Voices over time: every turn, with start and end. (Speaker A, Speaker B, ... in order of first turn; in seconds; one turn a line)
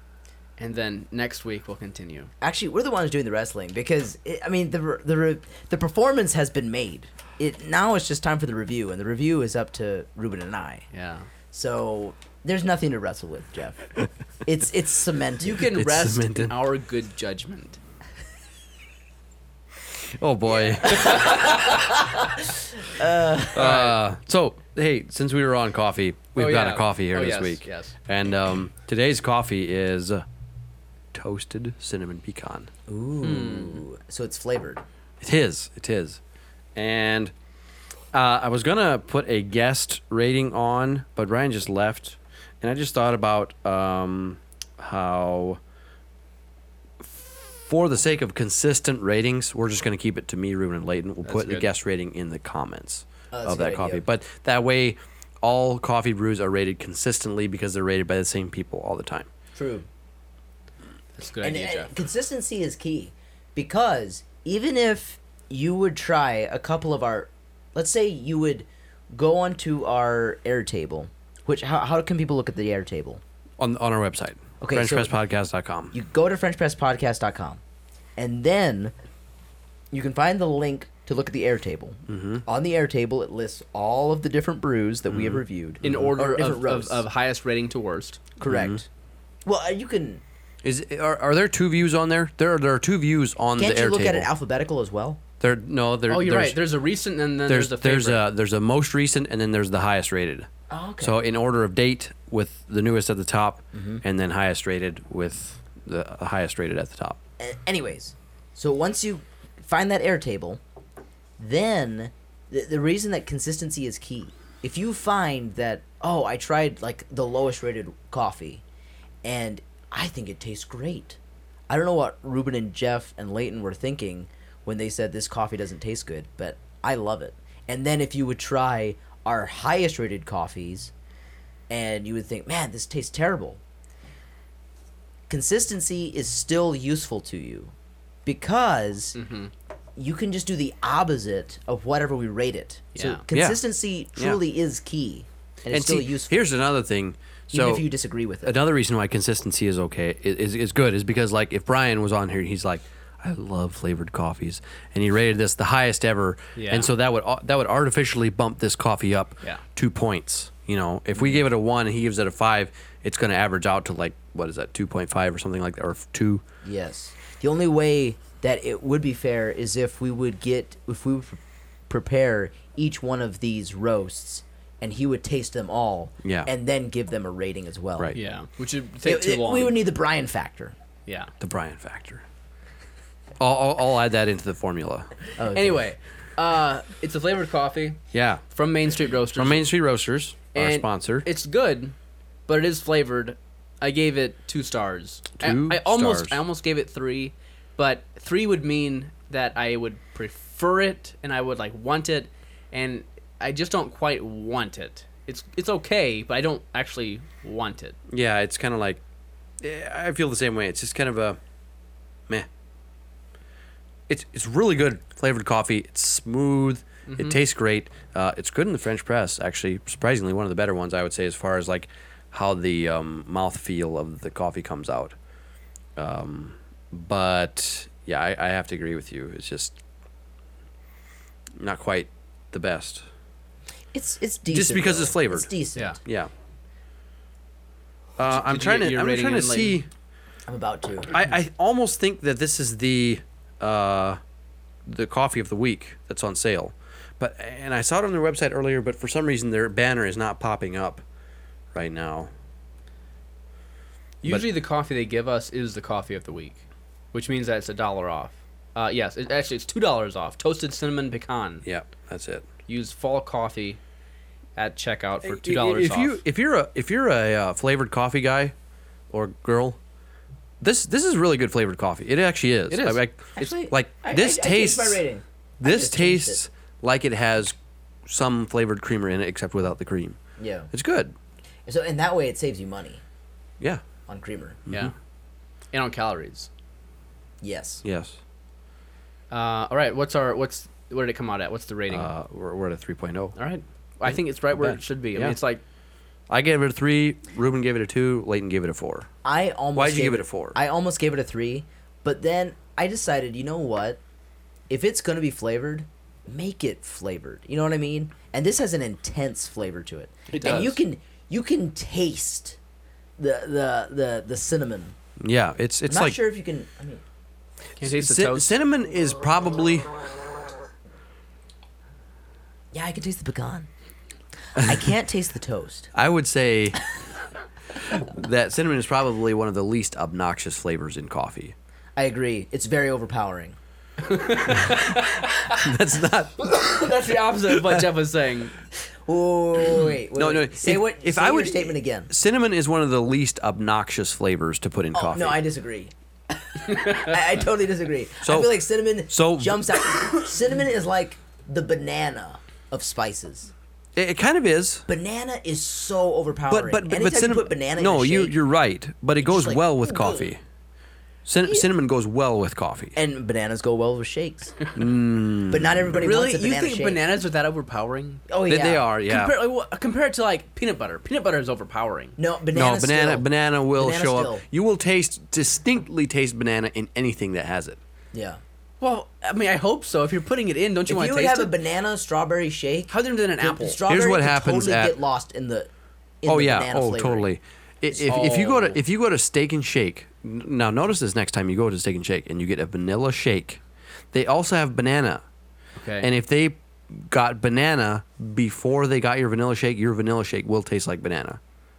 Speaker A: 0.6-2.3
Speaker B: 2.4-10.9
Speaker A: 10.9-11.3
Speaker B: 11.5-15.7
Speaker A: 15.4-17.8
Speaker C: 15.7-16.5
Speaker C: 20.1-21.6
Speaker B: 20.5-23.7
Speaker A: 20.9-21.4
Speaker C: 23.5-30.2
Speaker A: 23.6-24.0
Speaker A: 26.4-27.9
Speaker C: 31.1-32.7
Speaker B: 32.9-34.8
Speaker A: 33.2-33.8
Speaker C: 35.2-36.2
Speaker C: 36.8-37.3
Speaker C: 38.1-45.6
Speaker C: 47.0-59.3
Speaker A: 51.2-51.7
Speaker B: 53.3-54.0
Speaker B: 59.5-59.9
Speaker A: 61.1-61.9
Speaker B: 61.4-73.2
Speaker C: 73.6-75.9
Speaker B: 74.6-75.1
Speaker B: 75.9-77.6
Speaker B: 78.2-78.9
Speaker B: 79.9-87.0
Speaker C: 82.1-82.4
Speaker C: 85.1-86.1
Speaker A: 85.8-88.3
Speaker B: 88.4-88.9
Speaker C: 88.5-88.8
Speaker B: 89.5-90.2
Speaker C: 90.6-94.3
Speaker B: 93.6-95.2
Speaker C: 95.4-96.6
Speaker A: 96.1-98.2
Speaker C: 97.5-100.5
Speaker B: 100.7-101.2
Speaker C: 101.0-107.2
Speaker B: 103.7-104.0
Speaker B: 107.4-110.6
Speaker B: 111.4-118.6
Speaker B: 119.2-121.2
Speaker B: 121.7-130.9
Speaker B: 131.7-133.6
Speaker B: 135.3-137.7
Speaker B: 138.3-139.2
Speaker A: 139.1-139.5
Speaker B: 140.0-146.5
Speaker A: 142.9-143.2
Speaker C: 143.3-143.6
Speaker C: 145.7-147.9
Speaker B: 147.5-148.6
Speaker C: 148.4-166.4
Speaker A: 156.6-156.9
Speaker B: 161.2-161.4
Speaker B: 166.6-178.1
Speaker C: 176.2-176.5
Speaker A: 178.1-179.8
Speaker B: 179.0-180.8
Speaker A: 181.1-181.3
Speaker C: 181.4-182.2
Speaker C: 183.4-185.2
Speaker B: 185.4-185.9
Speaker A: 185.5-188.0
Speaker C: 188.1-188.4
Speaker A: 188.5-189.7
Speaker C: 189.3-191.3
Speaker A: 190.5-191.9
Speaker A: 192.5-207.9
Speaker C: 195.4-196.4
Speaker C: 208.1-209.0
Speaker C: 209.6-211.4
Speaker C: 214.1-225.1
Speaker A: 217.1-217.4
Speaker C: 225.9-229.8
Speaker C: 231.6-233.0
Speaker B: 233.9-236.0
Speaker C: 234.5-236.3
Speaker C: 238.2-239.9
Speaker A: 238.2-239.8
Speaker B: 240.5-241.1
Speaker C: 241.1-244.2
Speaker C: 244.9-251.0
Speaker C: 251.7-252.3
Speaker A: 254.2-261.6
Speaker C: 261.6-262.5
Speaker A: 262.7-263.8
Speaker A: 264.6-266.2
Speaker C: 265.2-268.5
Speaker C: 269.1-269.8
Speaker C: 270.6-275.0
Speaker A: 272.7-273.0
Speaker B: 273.4-276.4
Speaker C: 275.6-277.6
Speaker C: 278.1-280.2
Speaker B: 280.4-280.7
Speaker C: 280.7-281.1
Speaker B: 281.7-283.0
Speaker B: 284.1-284.6
Speaker A: 285.7-286.5
Speaker B: 287.4-287.8
Speaker C: 287.8-288.2
Speaker A: 289.3-292.1
Speaker C: 291.9-293.4
Speaker A: 293.4-295.6
Speaker C: 294.1-295.4
Speaker C: 296.3-299.1
Speaker B: 299.2-304.0
Speaker C: 299.8-300.6
Speaker B: 304.7-312.6
Speaker A: 310.3-310.8
Speaker C: 310.3-310.8
Speaker B: 313.2-314.9
Speaker C: 315.2-316.2
Speaker B: 315.9-317.0
Speaker A: 317.8-318.6
Speaker C: 317.8-320.0
Speaker B: 322.7-323.7
Speaker B: 324.6-325.9
Speaker C: 325.9-326.9
Speaker C: 327.9-331.5
Speaker B: 331.9-333.6
Speaker A: 334.0-335.5
Speaker C: 334.6-336.7
Speaker A: 336.5-338.6
Speaker B: 339.1-342.1
Speaker C: 340.1-345.4
Speaker B: 344.9-353.5
Speaker A: 346.6-347.2
Speaker C: 348.2-349.6
Speaker C: 353.9-354.9
Speaker B: 354.9-358.4
Speaker C: 356.5-360.4
Speaker B: 359.2-360.3
Speaker C: 361.3-363.0
Speaker B: 362.9-364.6
Speaker C: 364.8-366.0
Speaker B: 365.4-367.0
Speaker A: 366.0-368.3
Speaker B: 368.3-368.9
Speaker C: 368.5-369.4
Speaker A: 369.1-372.2
Speaker B: 372.2-374.4
Speaker C: 372.5-377.8
Speaker B: 378.1-378.4
Speaker A: 378.8-381.5
Speaker B: 380.9-385.7
Speaker A: 382.9-383.8
Speaker C: 383.9-384.9
Speaker B: 386.2-387.3
Speaker C: 386.3-393.6
Speaker B: 387.9-388.3
Speaker A: 388.1-388.8
Speaker C: 394.1-395.2
Speaker A: 395.8-396.1
Speaker C: 396.0-401.4